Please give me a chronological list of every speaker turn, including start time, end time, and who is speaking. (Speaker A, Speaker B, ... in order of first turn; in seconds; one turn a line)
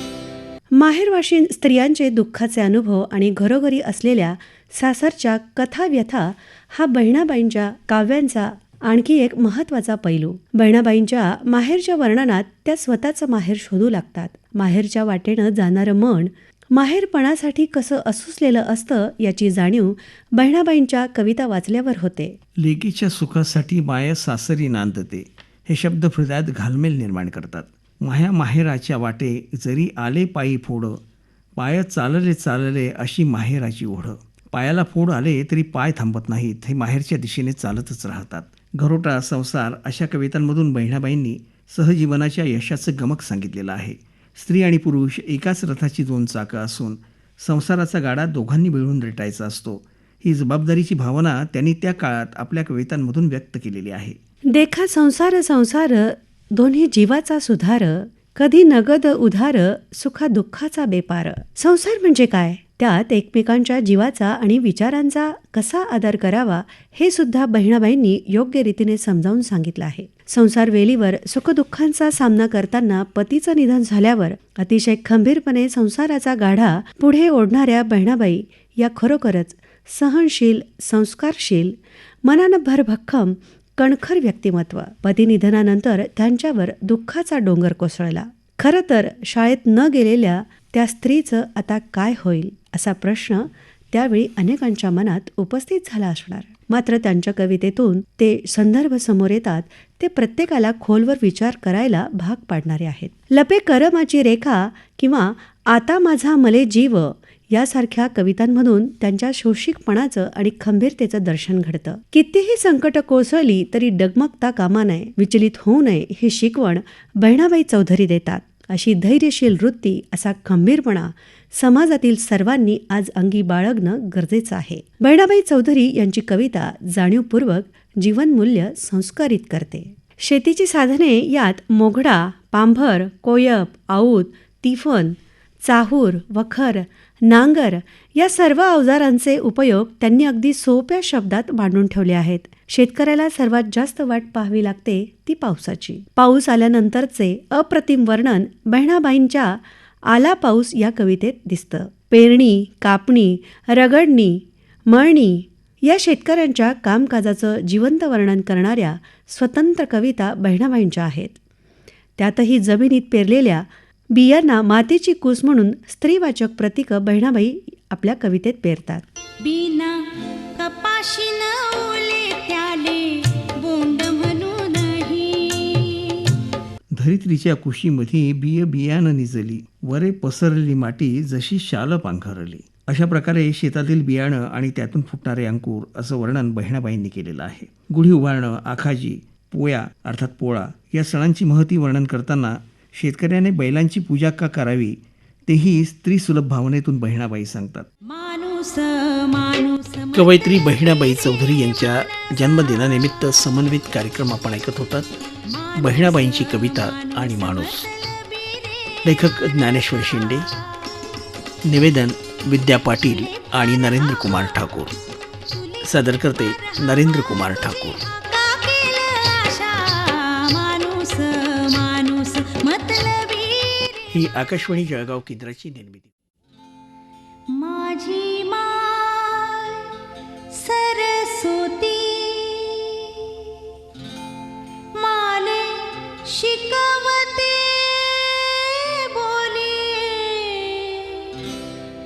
Speaker A: 0.7-22.4
Speaker B: 22.6-31.0
Speaker B: 31.6-54.2
Speaker A: 54.5-161.4
Speaker A: 162.2-169.1
Speaker C: 169.4-176.3
Speaker B: 176.9-197.9
Speaker C: 198.1-202.9
Speaker B: 200.1-205.1
Speaker C: 205.5-210.5
Speaker B: 205.7-207.9
Speaker B: 209.0-210.5
Speaker B: 211.6-214.9
Speaker C: 213.1-224.2
Speaker B: 215.8-218.0
Speaker B: 224.1-226.1
Speaker C: 227.5-229.9
Speaker C: 230.5-233.3
Speaker C: 234.9-241.4